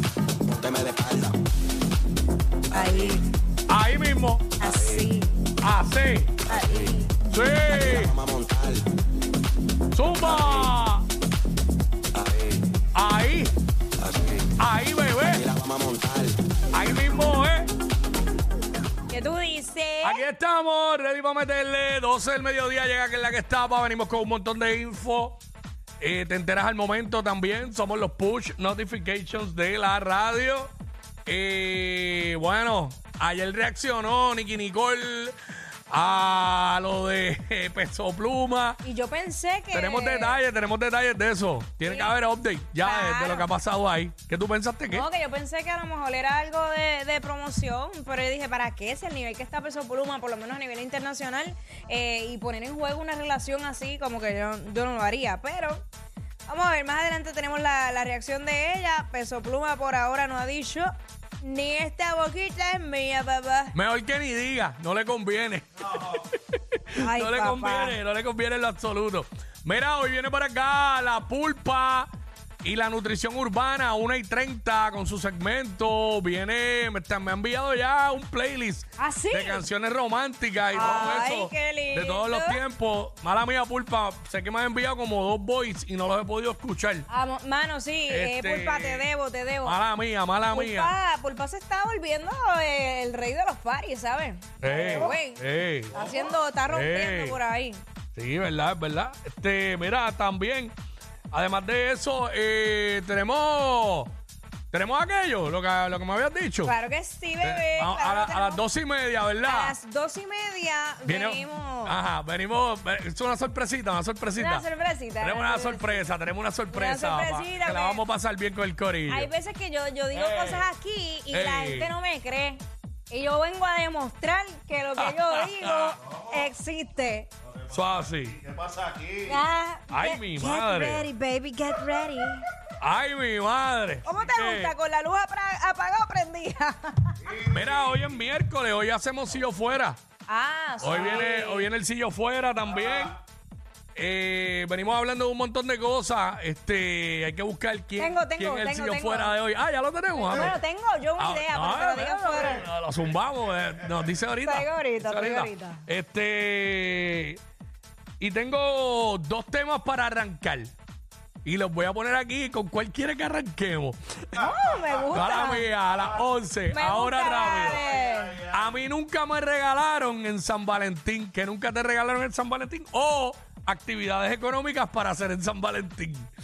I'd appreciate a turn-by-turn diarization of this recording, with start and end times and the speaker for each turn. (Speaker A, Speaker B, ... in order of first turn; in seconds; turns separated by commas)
Speaker A: 0.4-1.4, Speaker A: 2.7-3.2, Speaker B: 2.7-3.2, Speaker C: 3.7-4.5, Speaker B: 4.6-5.3, Speaker A: 4.6-5.1, Speaker C: 5.6-6.4, Speaker A: 6.5-7.0, Speaker B: 6.5-7.1, Speaker C: 7.3-8.2, Speaker A: 7.7-9.0, Speaker C: 9.9-11.1, Speaker A: 10.2-10.7, Speaker A: 12.1-12.7, Speaker C: 12.9-13.6, Speaker A: 14.0-14.5, Speaker C: 14.6-15.4, Speaker A: 15.3-16.4, Speaker C: 16.7-17.7, Speaker B: 19.1-20.2, Speaker C: 20.0-25.4, Speaker C: 26.0-30.7, Speaker C: 31.3-35.4, Speaker C: 35.9-38.8, Speaker B: 38.8-40.4, Speaker C: 39.7-45.1, Speaker B: 41.8-42.1, Speaker B: 42.8-43.5, Speaker B: 44.9-55.8, Speaker B: 56.5-63.8, Speaker C: 63.7-72.1, Speaker B: 67.0-68.0, Speaker C: 72.6-87.1, Speaker B: 79.0-79.6, Speaker B: 80.7-82.6, Speaker B: 87.1-89.8, Speaker C: 88.1-89.1, Speaker C: 89.6-90.9, Speaker B: 90.5-97.8, Speaker C: 94.6-97.4, Speaker C: 98.2-100.7, Speaker C: 101.3-104.1, Speaker C: 104.7-106.7, Speaker B: 106.6-108.6, Speaker C: 107.4-109.8, Speaker B: 109.4-112.0, Speaker C: 111.1-114.7, Speaker B: 114.3-116.1, Speaker C: 115.2-119.3, Speaker B: 116.7-118.0, Speaker B: 119.1-127.3, Speaker C: 120.1-120.7, Speaker C: 121.3-121.9, Speaker C: 125.0-126.0, Speaker C: 127.7-128.5, Speaker B: 129.2-132.5, Speaker C: 129.9-131.1, Speaker C: 132.8-134.7, Speaker B: 134.1-137.3, Speaker C: 137.4-140.0, Speaker B: 140.3-141.7, Speaker C: 140.8-143.2, Speaker C: 143.9-150.6, Speaker B: 148.0-149.4, Speaker B: 150.3-152.7, Speaker C: 151.2-157.4, Speaker B: 154.4-155.8, Speaker C: 158.2-160.7, Speaker C: 161.4-164.5, Speaker B: 164.3-165.7, Speaker C: 165.1-176.3, Speaker B: 166.7-168.5